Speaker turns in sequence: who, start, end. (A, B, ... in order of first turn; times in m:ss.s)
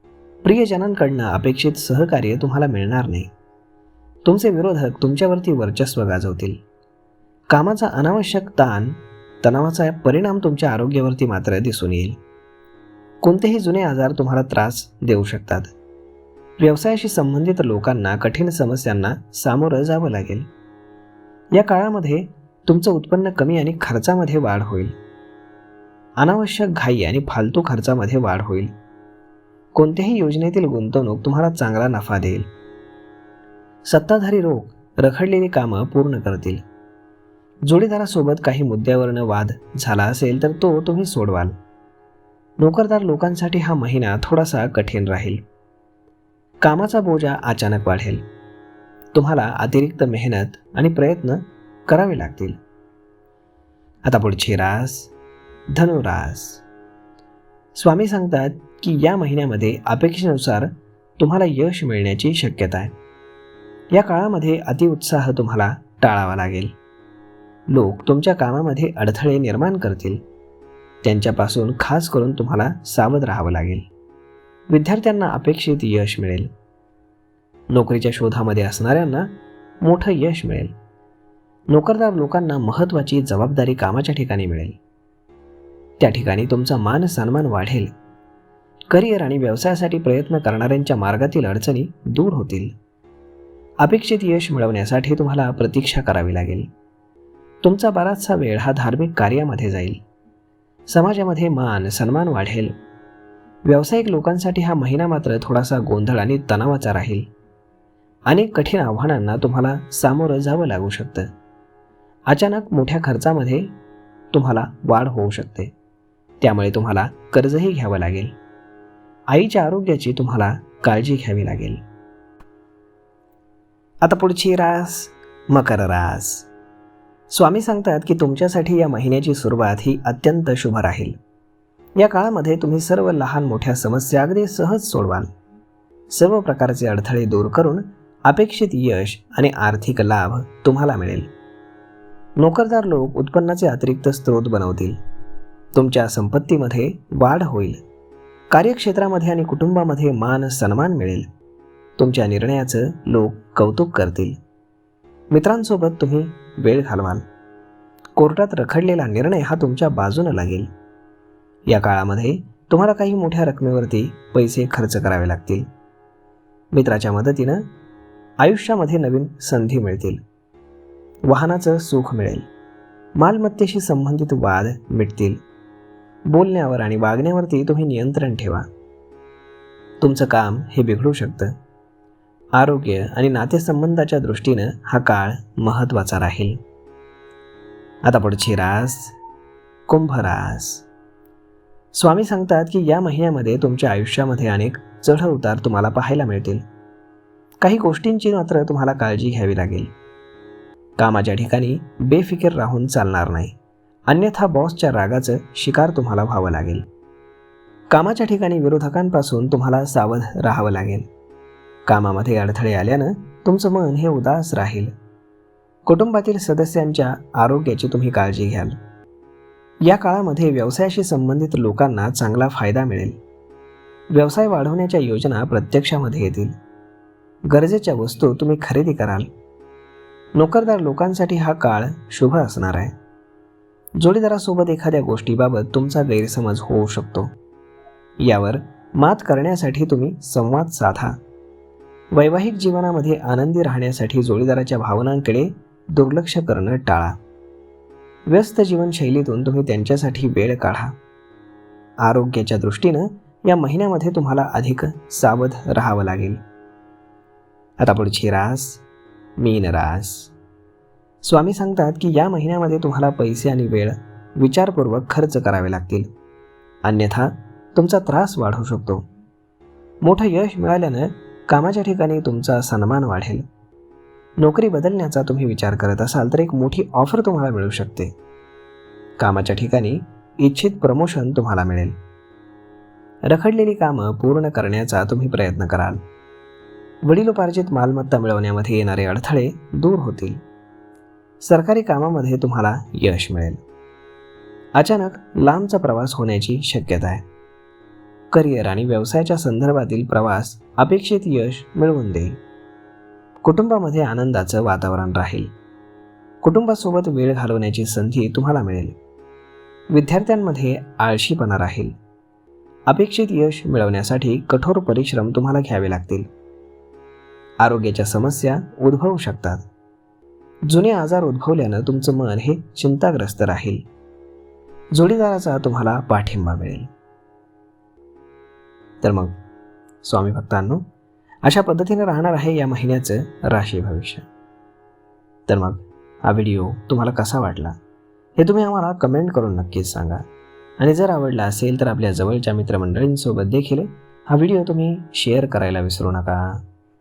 0:00.4-0:03.3 A
0:04.2-0:06.6 A
0:07.5-0:12.2 A
0:13.2-0:15.7 A
0:16.6-0:20.4 A
0:21.5-0:24.9 A
0:26.2-0:28.7 A
0:29.7-0:32.5 A
0:33.9-0:36.6 A
0:37.6-0:41.5 A
0:42.6-0:45.4 A
0:46.6-0:48.2 A
0:49.1-0:52.6 A
0:54.0-0:55.1 A
0:55.7-0:56.6 A
0:57.7-1:02.9 A
1:03.9-1:06.7 A
1:07.7-1:10.2 A
1:11.0-1:13.8 A
1:14.7-1:16.5 A
1:17.7-1:20.7 A
1:21.7-1:24.8 A
1:26.0-1:27.9 A
1:28.9-1:32.7 A
1:33.8-1:36.7 A
1:37.6-1:40.0 A
1:40.9-1:42.7 A
1:43.6-1:47.3 A
1:48.3-1:51.3 A
1:52.3-1:53.7 A
1:54.3-1:55.7 A
1:56.4-1:58.3 A
1:59.3-2:01.8 A
2:04.0-2:06.5 A
2:07.3-2:11.1 A
2:12.0-2:15.3 A
2:16.1-2:21.3 A
2:22.4-2:25.0 A
2:25.7-2:27.8 A
2:28.5-2:31.3 A
2:32.0-2:34.4 A
2:35.3-2:37.2 A
2:38.2-2:40.7 A
2:41.7-2:45.7 A
2:46.7-2:47.6 A
2:48.4-2:50.2 A
2:51.3-2:52.4 A
2:53.2-2:55.4 A
2:56.3-2:58.6 A
3:00.0-3:01.5 A
3:02.6-3:06.6 A
3:08.0-3:09.1 A
3:09.9-3:10.8 A
3:11.9-3:16.6 A
3:17.6-3:19.9 A
3:21.0-3:23.5 A
3:24.1-3:26.8 A
3:27.9-3:31.1 A
3:31.8-3:34.9 A
3:35.8-3:38.8 A
3:39.8-3:43.2 A
3:44.1-3:46.5 A
3:47.5-3:49.3 A
3:50.4-3:52.9 A
3:54.0-3:57.3 A
3:58.2-4:01.2 A
4:02.1-4:07.2 A
4:08.3-4:10.9 A
4:12.0-4:16.4 A
4:17.8-4:18.8 A
4:19.4-4:20.3 A
4:21.2-4:26.1 A
4:26.8-4:29.0 A
4:30.0-4:33.4 A
4:34.4-4:38.1 A
4:39.2-4:41.9 A
4:43.2-4:46.0 A
4:47.0-4:50.4 A
4:51.4-4:53.6 A
4:54.7-4:57.2 A
4:58.3-5:02.4 A
5:03.4-5:05.5 A
5:06.4-5:09.0 A
5:09.9-5:11.9 A
5:12.9-5:16.3 A
5:17.6-5:19.6 A
5:20.7-5:23.8 A
5:24.9-5:26.9 A
5:29.0-5:29.3 A
5:30.0-5:30.8 A
5:31.4-5:34.2 A
5:35.5-5:37.8 A
5:38.4-5:40.2 A
5:40.8-5:46.6 A